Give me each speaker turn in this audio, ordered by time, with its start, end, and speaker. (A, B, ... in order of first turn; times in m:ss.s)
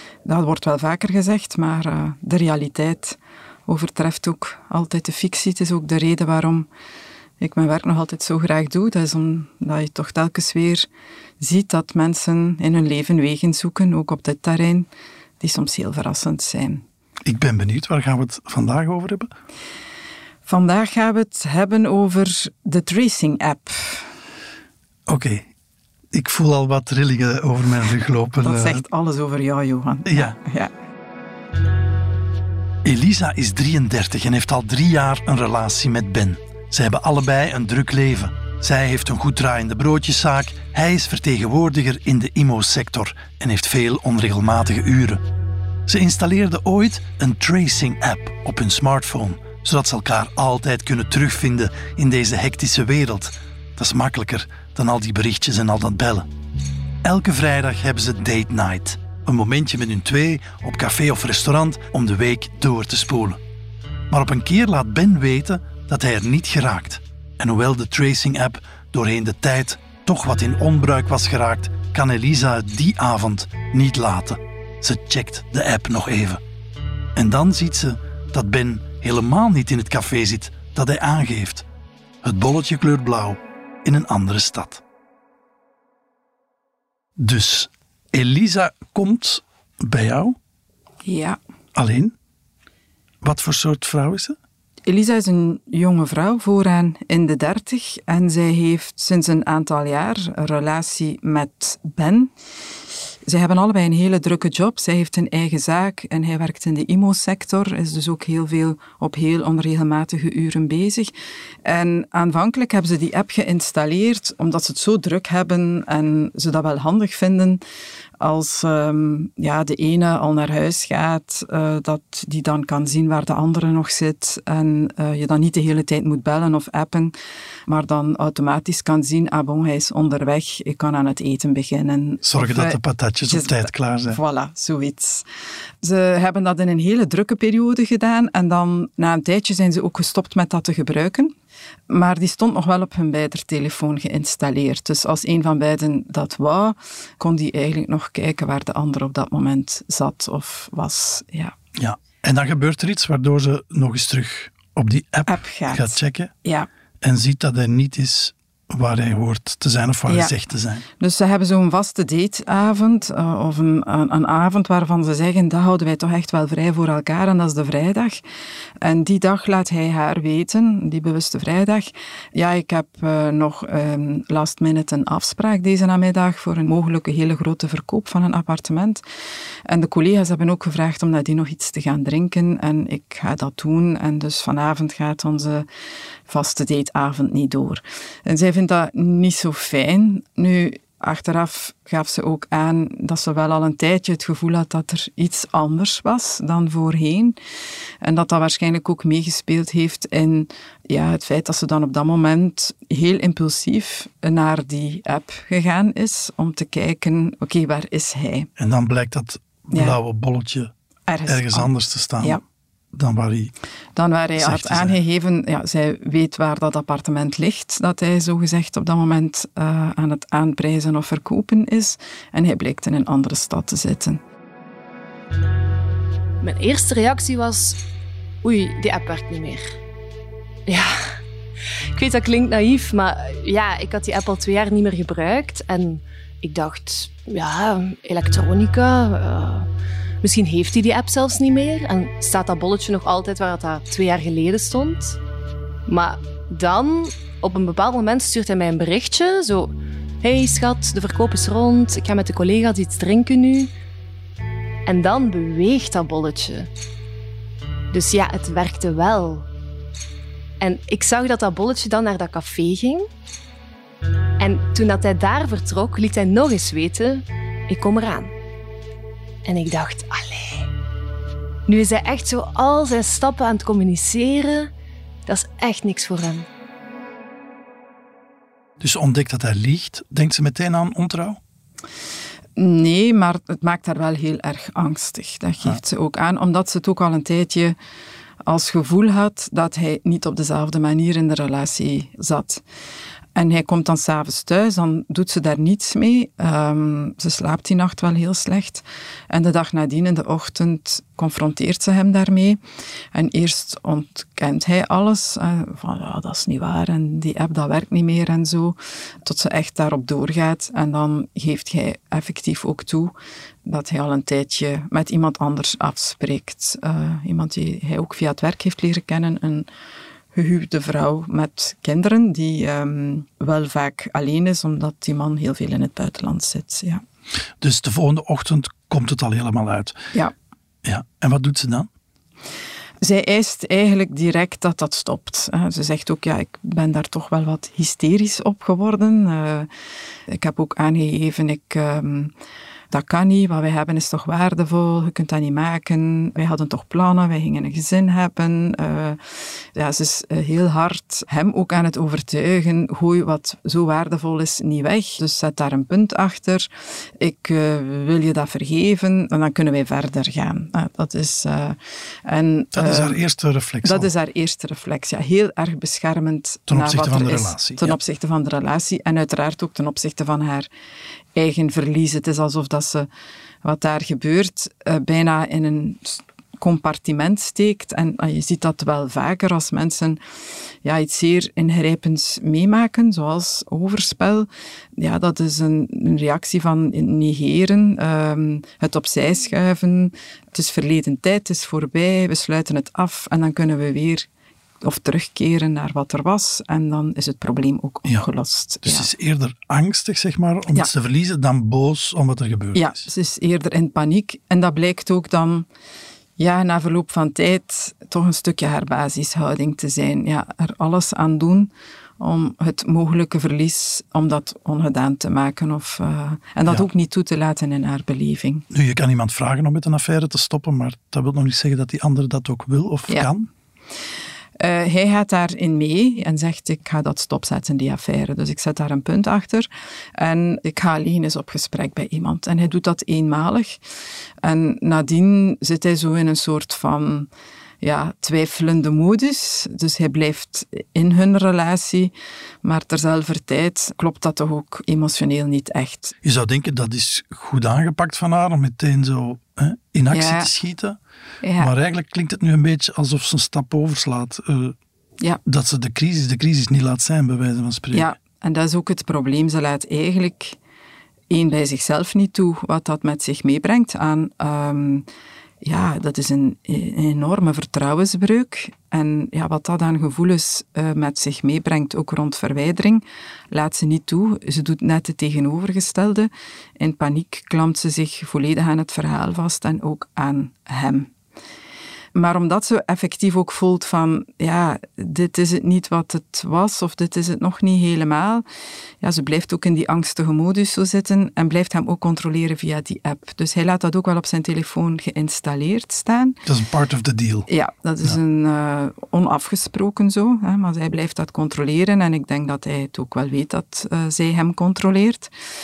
0:00.2-0:06.7 A
0:07.4-0:10.9 A
0:11.4-0:14.9 A
0:15.4-0:16.8 A
0:17.2-0:19.3 B
0:20.4-0:24.1 A
0:25.1-0:25.5 B
0:26.1-0:28.8 B
0:28.4-0:30.7 A
0:30.1-0:30.3 B
0:32.8-0:45.2 B
0:45.9-0:56.3 B
0:57.0-1:03.4 B
1:04.1-1:16.4 B
1:17.2-1:21.6 B
1:22.2-1:24.8 B
1:27.2-1:30.4 B
1:31.0-1:31.4 A
1:31.7-1:32.1 B
1:33.2-1:34.4 B
1:34.9-1:42.3 A
1:43.3-1:51.1 A
1:51.6-1:57.6 A
1:58.2-2:07.1 A
2:07.7-2:15.2 A
2:12.2-2:14.2 B
2:15.8-2:21.3 A
2:21.9-2:31.5 A
2:31.8-2:36.3 B
2:35.3-2:36.7 A
2:37.0-2:40.8 B
2:40.1-2:40.3 A
2:41.0-2:48.2 A
2:48.8-2:59.0 A
2:59.6-3:05.6 A
3:06.3-3:17.4 A
3:18.0-3:28.5 A
3:28.6-3:30.7 B
3:29.7-3:30.0 A
3:31.1-3:32.4 A
3:31.3-3:32.4 B
3:32.9-3:33.5 B
3:34.0-3:44.2 A
3:34.4-3:35.0 B
3:46.4-3:47.8 C
3:48.4-3:49.7 C
3:50.7-3:51.1 C
3:51.9-3:59.7 C
4:00.2-4:05.2 C
4:05.9-4:13.7 C
4:14.8-4:16.7 C
4:17.9-4:19.4 C
4:20.6-4:23.1 C
4:24.4-4:28.3 C
4:29.4-4:30.7 C
4:31.7-4:34.7 C
4:35.3-4:36.5 C
4:38.8-4:41.4 B
4:42.6-4:47.8 A
4:48.4-4:52.6 A
4:53.3-5:02.6 A
5:03.1-5:13.1 A
5:13.6-5:19.7 A
5:20.3-5:27.0 A
5:27.6-5:30.0 B
5:30.8-5:31.9 B
5:33.0-5:39.7 A
5:40.3-5:42.3 A
5:42.9-5:49.2 A
5:49.7-5:56.7 A
5:57.2-6:03.2 A
6:02.7-6:04.1 B
6:03.8-6:10.7 A
6:06.7-6:07.9 B
6:11.3-6:13.1 A
6:13.6-6:20.2 A
6:20.8-6:34.3 A
6:34.8-6:39.1 A
6:38.8-6:42.9 B
6:42.7-6:45.6 A
6:46.4-6:58.7 A
6:58.7-7:03.5 B
7:04.6-7:13.8 A
7:14.4-7:17.3 A
7:17.8-7:22.1 A
7:22.6-7:26.1 A
7:26.2-7:31.0 B
7:30.1-7:30.5 A
7:31.4-7:31.7 A
7:31.6-7:34.8 B
7:35.4-7:38.1 B
7:37.9-7:40.6 A
7:41.3-7:45.0 A
7:45.6-8:01.1 A
8:02.1-8:08.4 A
8:09.0-8:16.4 A
8:16.4-8:17.5 B
8:17.5-8:25.3 A